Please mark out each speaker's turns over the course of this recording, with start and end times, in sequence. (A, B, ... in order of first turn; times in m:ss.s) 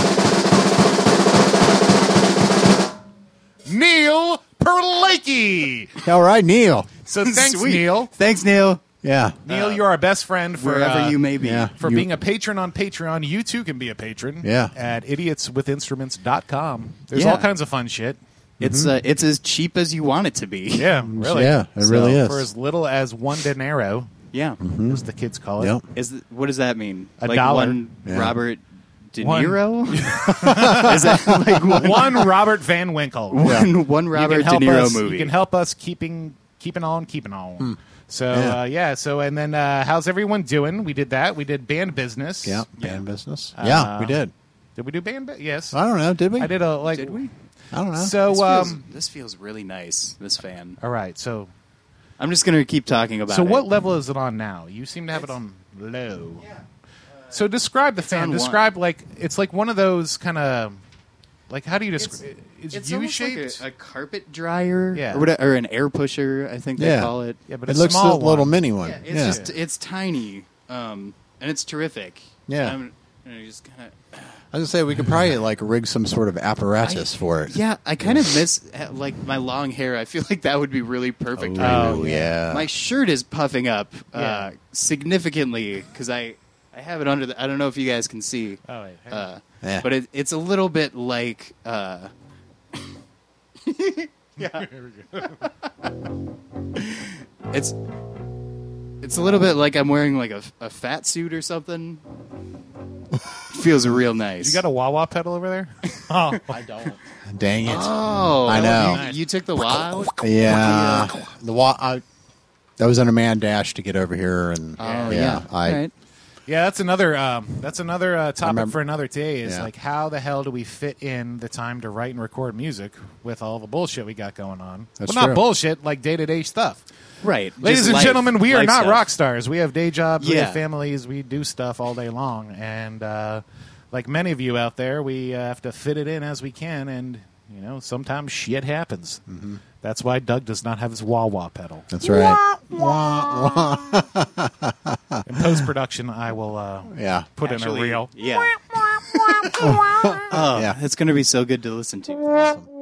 0:03.6-0:06.0 A
0:06.0-0:06.9 B
0:07.0-0:08.1 A
0:07.2-0:08.8 C
0:09.0-0:09.4 B
0:09.4-0:18.2 A
0:09.5-0:09.8 C
0:10.6-0:11.7 C
0:11.4-0:12.1 B
0:14.4-0:14.7 B
0:17.1-0:17.5 C
0:18.6-0:18.9 B
0:18.6-0:21.0 C
0:20.8-0:24.1 A
0:21.1-0:22.5 B
0:24.3-0:24.6 C
0:24.6-0:25.0 B
0:24.8-0:25.8 A
0:25.6-0:25.8 B
0:25.9-0:28.6 C
0:27.2-0:27.8 A
0:28.0-0:28.3 B
0:29.1-0:32.3 C
0:29.2-0:42.6 A
0:30.3-0:31.3 B
0:33.3-0:35.3 C
0:33.4-0:33.7 B
0:38.3-0:38.6 B
0:42.4-0:44.3 B
0:43.6-0:44.2 A
0:44.8-0:45.8 A
0:45.7-0:46.5 B
0:46.4-0:47.2 A
0:46.9-0:47.3 C
0:47.7-0:48.1 B
0:47.9-0:48.8 A
0:48.2-0:50.8 C
0:50.8-0:51.5 A
0:52.2-0:53.6 C
0:53.3-0:56.4 A
0:57.3-1:00.8 A
0:58.0-0:58.7 C
1:01.5-1:03.6 A
1:02.0-1:07.4 C
1:04.9-1:05.3 A
1:06.8-1:07.1 B
1:07.5-1:08.6 A
1:07.7-1:09.4 B
1:08.8-1:14.4 C
1:09.2-1:09.5 A
1:12.5-1:12.8 B
1:14.5-1:18.3 B
1:16.8-1:32.1 C
1:21.4-1:22.7 B
1:21.6-1:22.3 A
1:24.1-1:24.5 A
1:28.7-1:29.3 A
1:29.6-1:29.9 B
1:33.6-1:34.7 C
1:34.4-1:35.5 A
1:36.8-1:37.7 C
1:39.0-1:42.0 C
1:43.5-1:44.6 C
1:44.4-1:46.6 A
1:46.5-1:49.0 B
1:47.6-1:51.2 C
1:48.4-1:49.2 A
1:50.1-1:52.0 B
1:52.8-1:55.8 B
1:54.8-1:55.9 C
1:54.8-1:55.2 A
1:56.5-2:06.8 A
1:58.4-1:58.8 B
1:59.4-1:59.7 B
2:05.0-2:05.4 B
2:07.2-2:09.1 C
2:07.6-2:19.2 A
2:10.2-2:10.6 C
2:19.3-2:19.6 B
2:19.8-2:21.9 A
2:21.9-2:25.6 B
2:25.2-2:29.6 A
2:26.9-2:27.3 B
2:27.4-2:32.3 C
2:29.6-2:30.8 B
2:32.3-2:32.7 B